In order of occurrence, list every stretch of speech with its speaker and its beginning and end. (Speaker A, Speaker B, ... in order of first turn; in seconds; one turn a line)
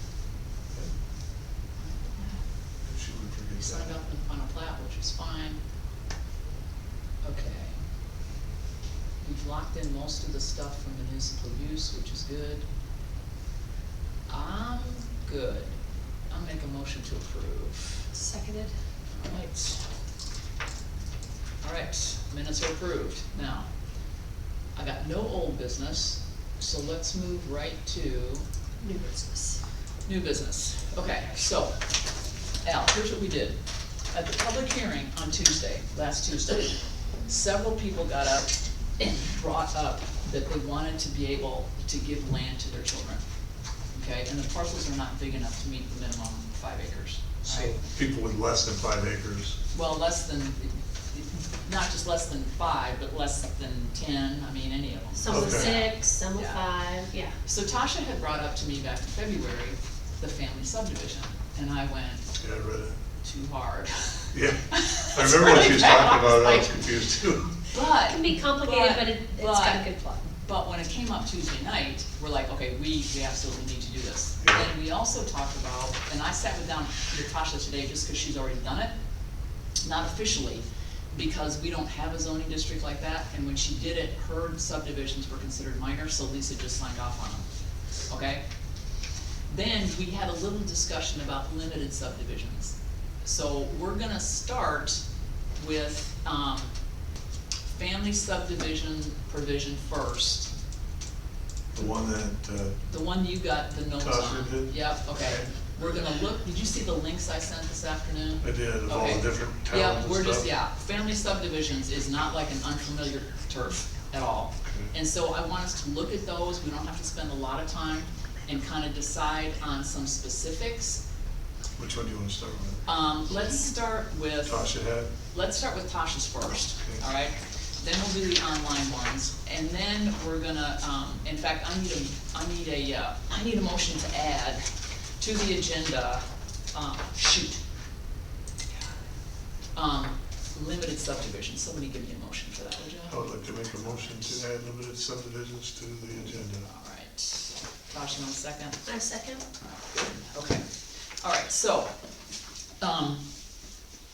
Speaker A: 1.8-2.4
Speaker B: 2.8-4.0
Speaker A: 3.6-5.6
Speaker A: 7.2-7.8
Speaker A: 9.2-12.7
Speaker A: 14.3-15.7
Speaker A: 16.3-18.1
Speaker C: 18.1-18.7
Speaker A: 19.1-19.8
Speaker A: 21.6-23.7
Speaker A: 24.7-28.4
Speaker C: 28.8-29.6
Speaker A: 30.0-31.8
Speaker A: 32.6-33.6
Speaker A: 34.1-43.2
Speaker A: 43.9-47.8
Speaker B: 47.4-49.6
Speaker A: 49.7-56.7
Speaker C: 55.1-57.3
Speaker B: 55.3-55.8
Speaker A: 57.4-62.3
Speaker B: 62.3-63.0
Speaker A: 63.2-67.0
Speaker B: 64.3-67.6
Speaker A: 67.6-78.9
Speaker C: 68.1-70.2
Speaker B: 74.4-74.7
Speaker A: 79.8-87.5
Speaker A: 88.1-88.4
Speaker A: 89.5-95.0
Speaker A: 95.5-96.7
Speaker A: 97.7-100.5
Speaker B: 101.7-102.8
Speaker A: 102.9-121.0
Speaker B: 104.0-105.5
Speaker B: 108.4-110.5
Speaker B: 114.6-114.9
Speaker B: 121.8-122.8
Speaker A: 122.8-124.7
Speaker B: 124.4-125.1
Speaker A: 125.3-134.6
Speaker A: 135.2-137.6
Speaker A: 139.7-143.2
Speaker B: 143.1-146.7
Speaker A: 146.6-148.9
Speaker C: 148.8-149.4
Speaker A: 149.6-151.9
Speaker A: 152.8-153.2